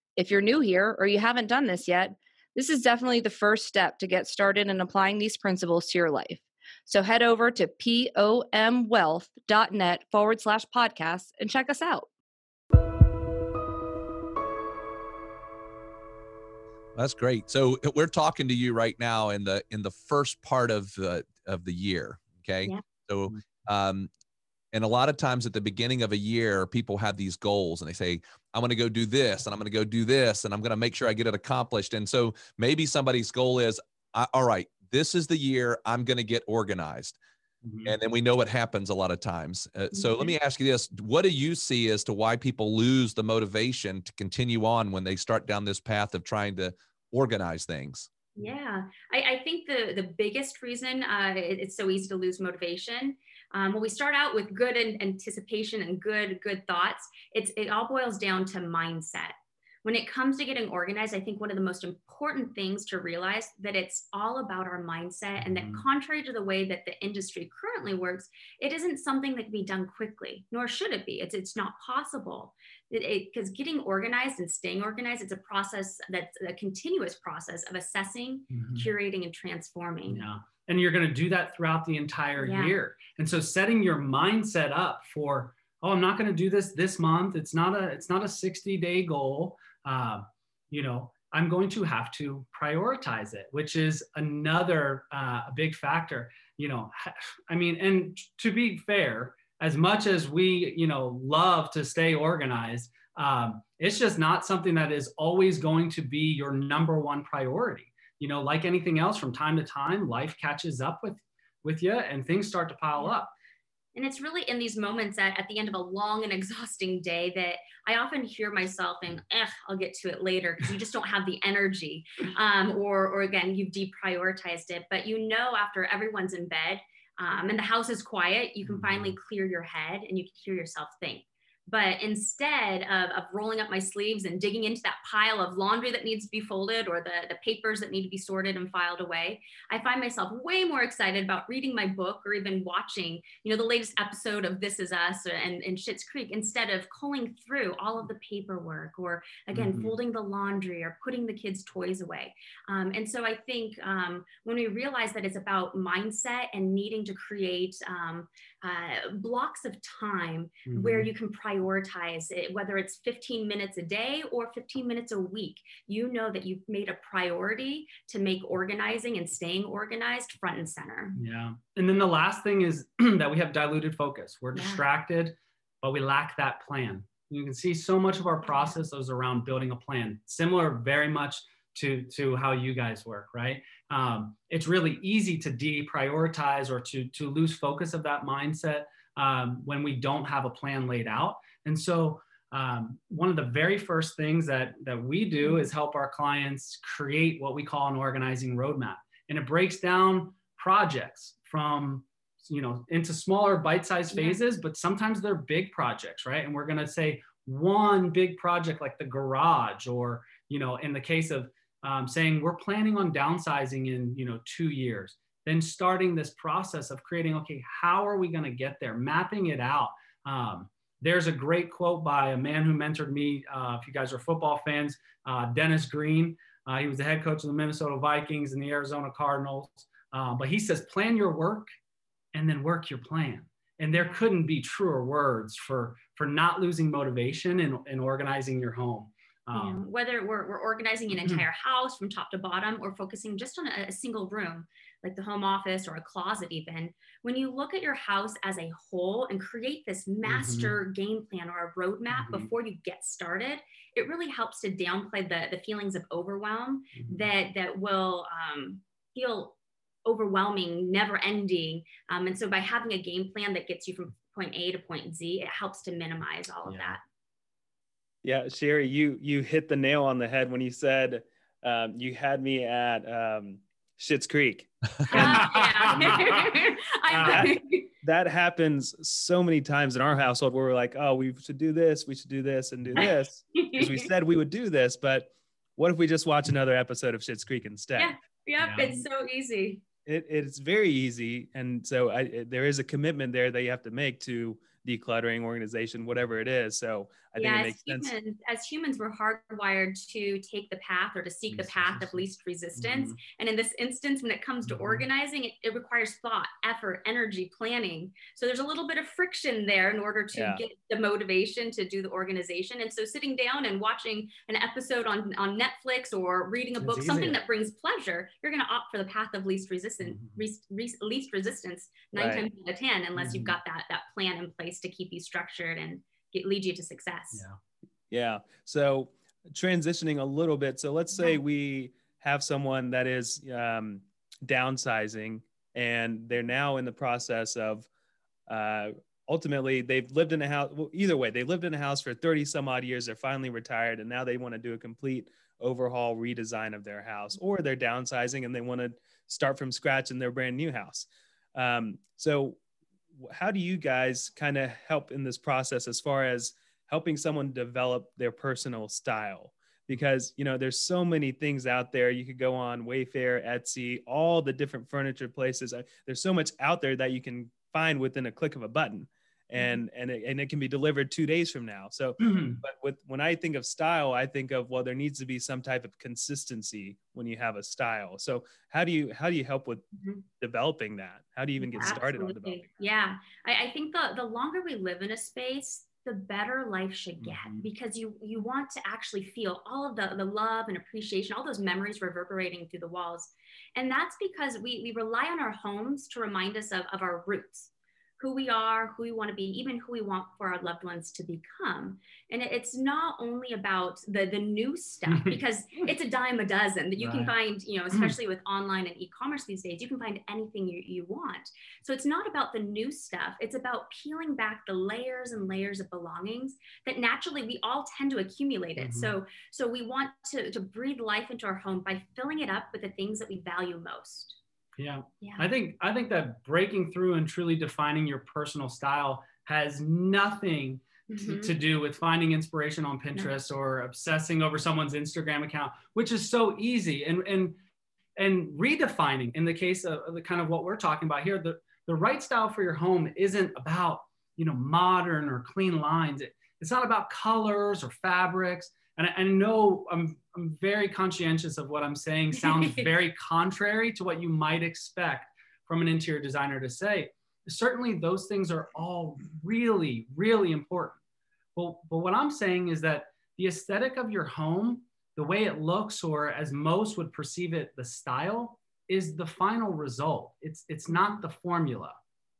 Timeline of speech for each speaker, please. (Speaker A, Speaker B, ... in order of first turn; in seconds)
Speaker A: 0.1-12.1
Speaker B: 16.9-24.1, 24.7-37.2, 37.8-48.1
Speaker C: 37.6-37.9, 65.4-65.8, 78.5-78.9, 80.1-113.3, 128.6-129.1, 149.5-149.9, 160.7-161.1, 171.2-231.7, 232.3-239.8, 241.1-241.4, 250.2-250.7, 252.1-252.5, 257.0-257.2, 266.7-267.0, 275.1-277.5, 288.6-289.0, 301.5-302.2, 302.8-303.1, 304.6-305.0, 316.8-317.4, 320.0-320.4, 323.2-323.6, 327.3-327.6, 372.2-372.6, 387.2-387.7, 405.1-405.9, 407.0-407.3, 418.8-419.1, 424.8-437.6, 438.2-461.0, 461.6-472.0
Speaker D: 39.9-40.3, 48.4-80.2, 82.4-82.7, 113.9-171.2, 174.5-174.8, 195.4-195.7, 204.1-204.4, 233.9-234.2, 239.5-267.0, 275.1-277.9, 283.0-284.0, 288.0-289.8, 297.4-327.4, 381.6-424.4, 425.2-425.5, 431.1-431.5, 470.9-471.2
Speaker E: 268.2-276.3, 277.1-288.1, 290.1-298.1, 310.3-310.6, 322.1-322.5, 328.1-337.9, 338.5-352.6, 353.2-382.9